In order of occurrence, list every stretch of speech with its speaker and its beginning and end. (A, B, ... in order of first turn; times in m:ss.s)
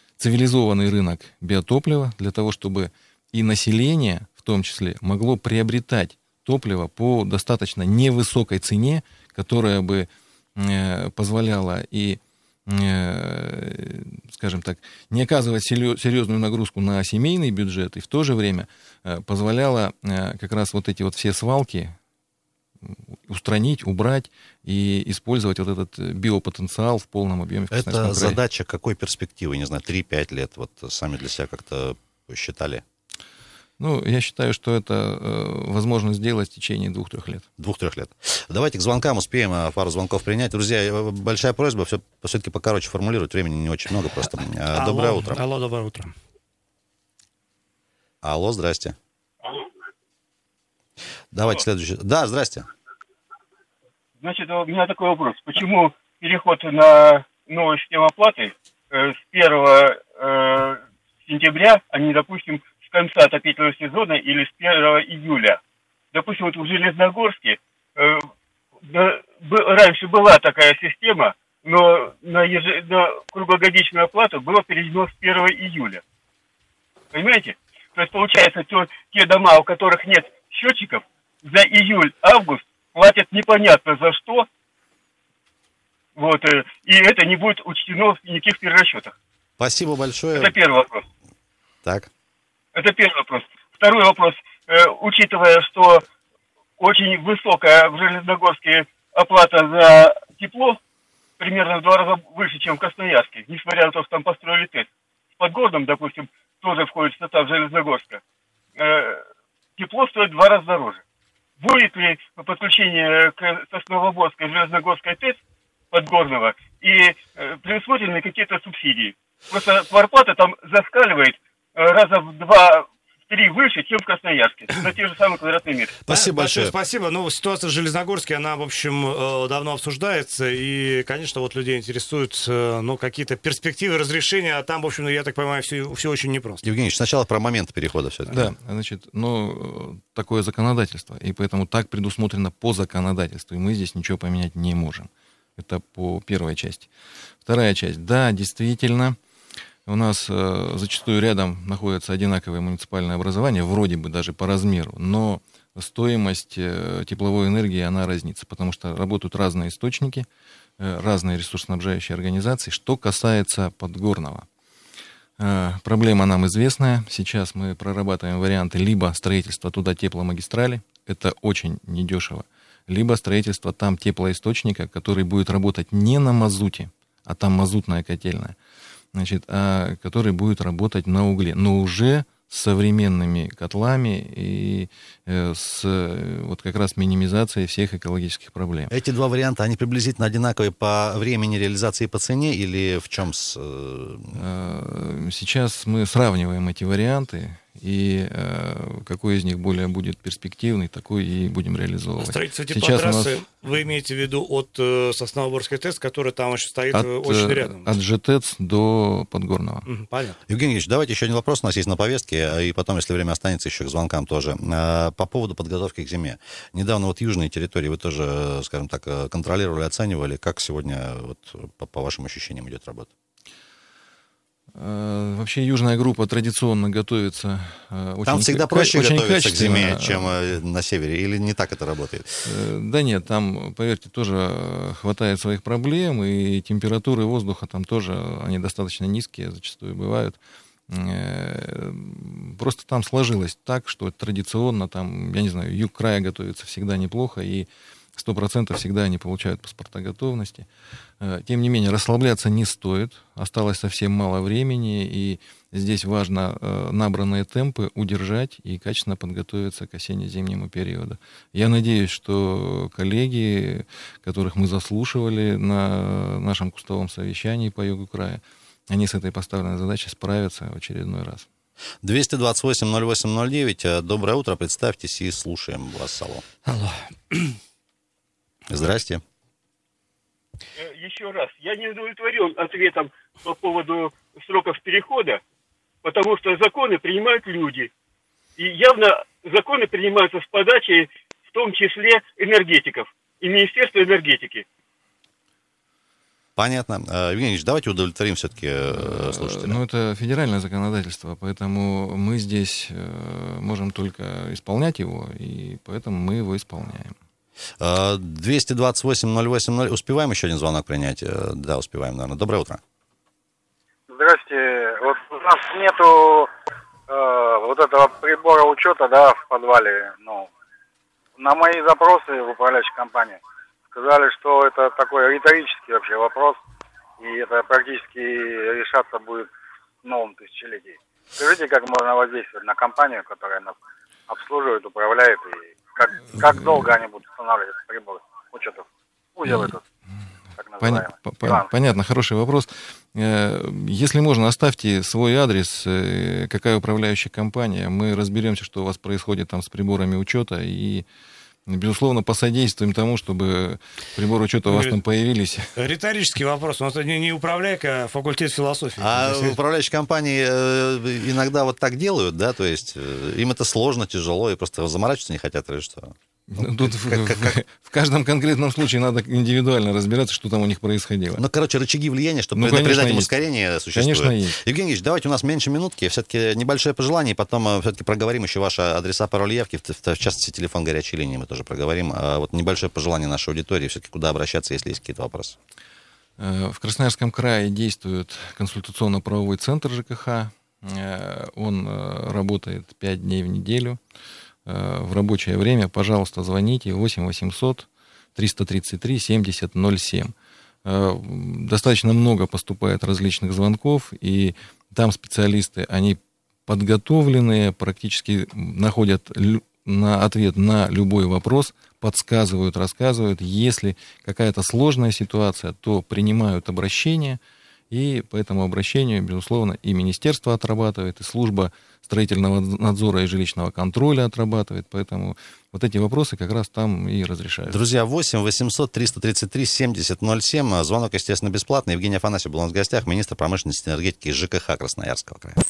0:00.2-0:21.9 A
0:23.3-0:28.4 A
0:27.7-0:32.8 B
0:33.8-0:37.4 A
0:37.6-0:45.4 B
0:44.7-0:46.1 C
0:48.2-0:49.0 B
0:51.3-0:52.7 B
0:54.2-1:05.6 D
1:06.1-1:08.3 D
1:08.9-1:16.0 D
1:17.1-1:24.4 D
1:26.2-1:29.1 D
1:29.6-1:30.5 B
1:30.3-1:31.0 D
1:31.8-1:32.1 B
1:32.7-1:36.0 D
1:36.8-1:40.8 D
1:41.4-1:44.9 D
1:45.4-1:48.2 D
1:48.8-1:49.2 D
1:49.8-1:51.0 D
1:51.6-1:55.4 D
1:55.9-2:06.0 D
2:06.0-2:06.7 B
2:06.1-2:16.6 C
2:16.6-2:18.5 B
2:18.3-2:26.9 A
2:27.4-2:29.2 A
2:29.9-2:40.3 A
2:40.8-2:44.5 A
2:45.4-2:58.6 A
2:59.1-3:08.9 A
3:08.9-3:14.4 B
3:14.3-3:23.4 A
3:22.2-3:27.9 C
3:26.9-3:29.8 A
3:29.8-3:30.3 C
3:30.5-3:43.1 B
3:44.8-3:50.3 A
3:48.2-3:52.5 B
3:52.4-4:00.4 A
4:00.9-4:10.7 A
4:11.2-4:31.5 A
4:32.0-4:36.4 B
4:36.6-4:37.5 C
4:38.7-4:39.2 B
4:40.8-4:45.4 D
4:46.0-4:47.9 D
4:48.6-4:54.6 D
4:56.6-4:59.8 B
4:58.9-5:07.1 A
5:07.8-5:12.8 B
5:14.1-5:16.5 E
5:17.1-5:20.5 E
5:21.4-5:23.4 E
5:23.9-5:26.6 E
5:27.2-5:29.5 E
5:30.0-5:33.8 E
5:34.3-5:38.8 E
5:39.4-5:39.8 E
5:39.4-5:39.7 A
5:40.6-5:41.7 E
5:40.8-5:51.0 A
5:51.7-5:55.7 A
5:55.8-5:59.5 C
5:59.0-6:07.6 B
6:06.5-6:11.4 A
6:11.4-6:25.6 B
6:12.6-6:13.3 A
6:13.9-6:14.6 A
6:26.4-6:34.0 A
6:34.6-6:40.3 A
6:40.8-6:57.4 A
6:57.9-7:07.8 A
7:07.7-7:15.6 B